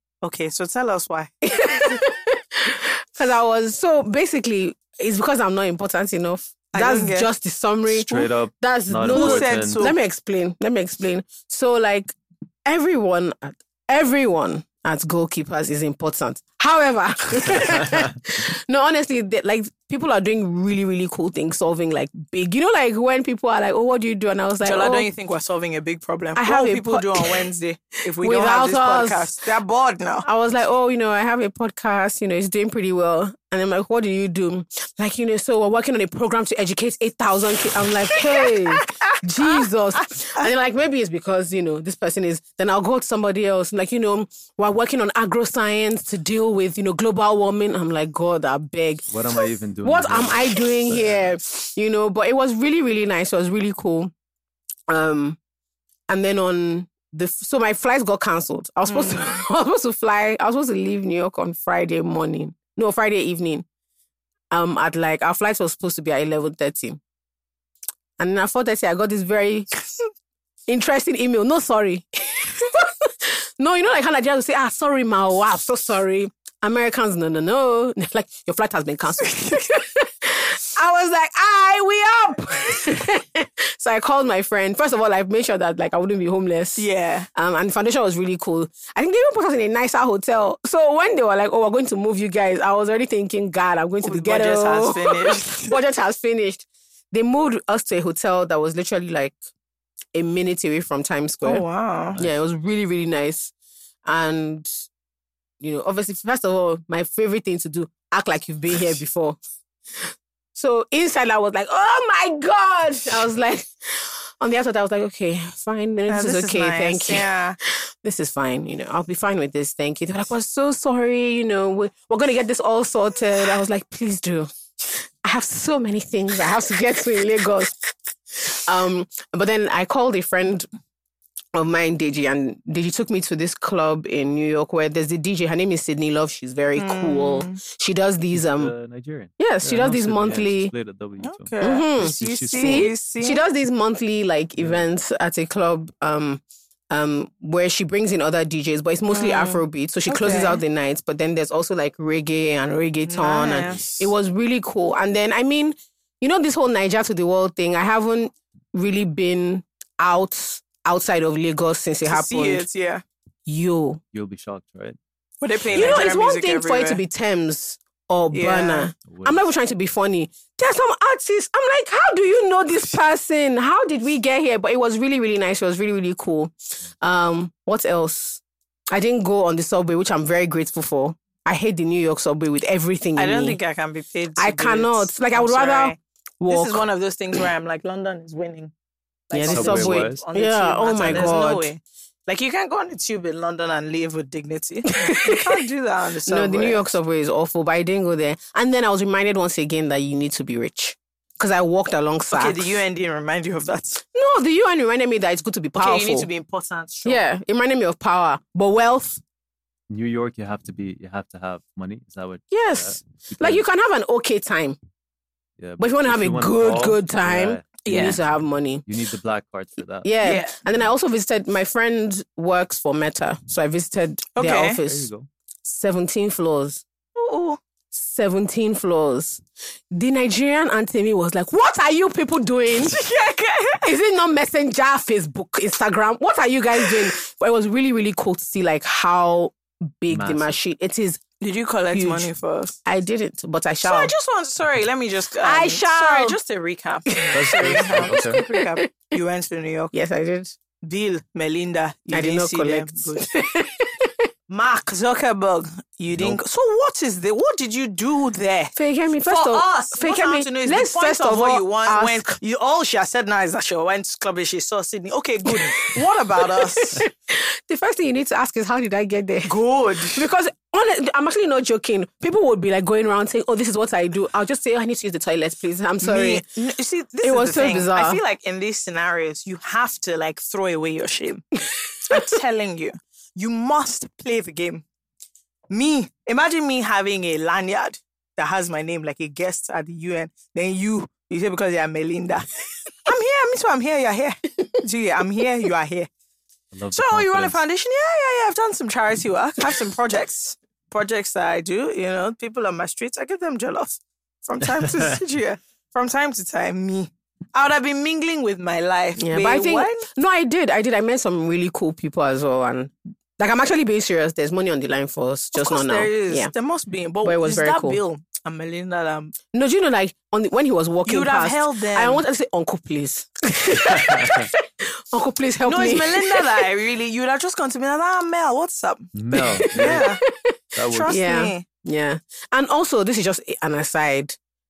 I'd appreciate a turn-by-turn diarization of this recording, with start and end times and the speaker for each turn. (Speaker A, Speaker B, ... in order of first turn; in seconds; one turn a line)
Speaker A: 0.2-1.3
Speaker B: 1.5-25.1
Speaker A: 6.7-7.3
Speaker C: 7.9-9.8
Speaker A: 9.0-10.0
Speaker A: 24.6-30.3
Speaker B: 26.4-27.5
Speaker B: 28.2-29.4
Speaker B: 30.2-54.1
Speaker A: 38.1-40.4
Speaker C: 49.1-51.3
Speaker B: 54.9-55.4
Speaker B: 56.1-63.6
Speaker A: 58.9-59.4
Speaker B: 64.5-67.0
Speaker B: 68.2-69.8
Speaker B: 70.7-99.4
Speaker A: 86.8-87.3
Speaker A: 94.0-95.8
Speaker B: 100.1-103.5
Speaker A: 101.4-102.2
Speaker B: 104.0-104.8
Speaker B: 105.6-109.4
Speaker B: 110.0-130.7
Speaker A: 116.1-117.6
Speaker B: 131.5-138.7
Speaker A: 136.8-137.6
Speaker C: 138.3-142.9
Speaker B: 139.4-140.7
Speaker A: 141.2-143.4
Speaker B: 141.6-162.7
Speaker C: 144.6-144.8
Speaker A: 149.1-150.6
Speaker A: 153.1-154.1
Speaker A: 162.1-163.0
Speaker B: 163.5-164.0
Speaker C: 164.1-165.0
Speaker A: 165.4-167.0
Speaker C: 165.7-166.1
Speaker B: 165.7-183.6
Speaker A: 168.3-168.9
Speaker C: 169.1-169.5
Speaker A: 183.2-186.0
Speaker B: 184.4-187.4
Speaker A: 186.5-188.7
Speaker A: 189.3-196.9
Speaker B: 189.3-191.7
Speaker C: 189.5-190.2
Speaker C: 191.0-191.4
Speaker B: 194.9-195.6
Speaker B: 196.3-202.8
Speaker A: 202.3-204.0
Speaker B: 204.1-206.3
Speaker A: 205.8-207.2
Speaker B: 207.1-209.2
Speaker C: 209.9-213.6
Speaker B: 212.5-214.8
Speaker C: 215.6-218.2
Speaker B: 215.8-218.8
Speaker A: 217.8-218.2
Speaker C: 218.9-220.1
Speaker B: 220.0-225.1
Speaker A: 220.2-220.6
Speaker A: 224.4-224.8
Speaker C: 224.8-225.3
Speaker B: 225.7-226.8
Speaker A: 227.2-227.6
Speaker B: 227.9-233.0
Speaker A: 232.7-233.8
Speaker B: 233.8-241.2
Speaker C: 240.1-240.6
Speaker A: 241.4-242.8
Speaker B: 241.9-242.3
Speaker B: 242.8-244.1
Speaker A: 243.8-249.9
Speaker B: 245.4-246.4
Speaker B: 247.1-249.1
Speaker C: 247.3-248.4
Speaker B: 249.9-250.6
Speaker A: 250.8-253.3
Speaker B: 252.1-254.3
Speaker A: 254.5-267.1
Speaker C: 256.1-256.4
Speaker B: 258.8-262.4
Speaker B: 265.4-276.4
Speaker A: 269.5-270.2
Speaker A: 276.0-284.8
Speaker B: 277.2-278.2
Speaker A: 285.7-296.1
Speaker C: 296.7-297.6
Speaker A: 296.9-310.1
Speaker B: 309.2-316.5
Speaker A: 315.6-319.4
Speaker B: 317.2-318.0
Speaker B: 319.5-326.7
Speaker A: 321.1-322.2
Speaker C: 323.8-324.5
Speaker A: 325.7-329.1
Speaker C: 329.1-330.1
Speaker B: 329.4-330.6
Speaker A: 329.7-330.2
Speaker C: 330.8-331.2
Speaker A: 330.9-331.6
Speaker B: 331.1-334.4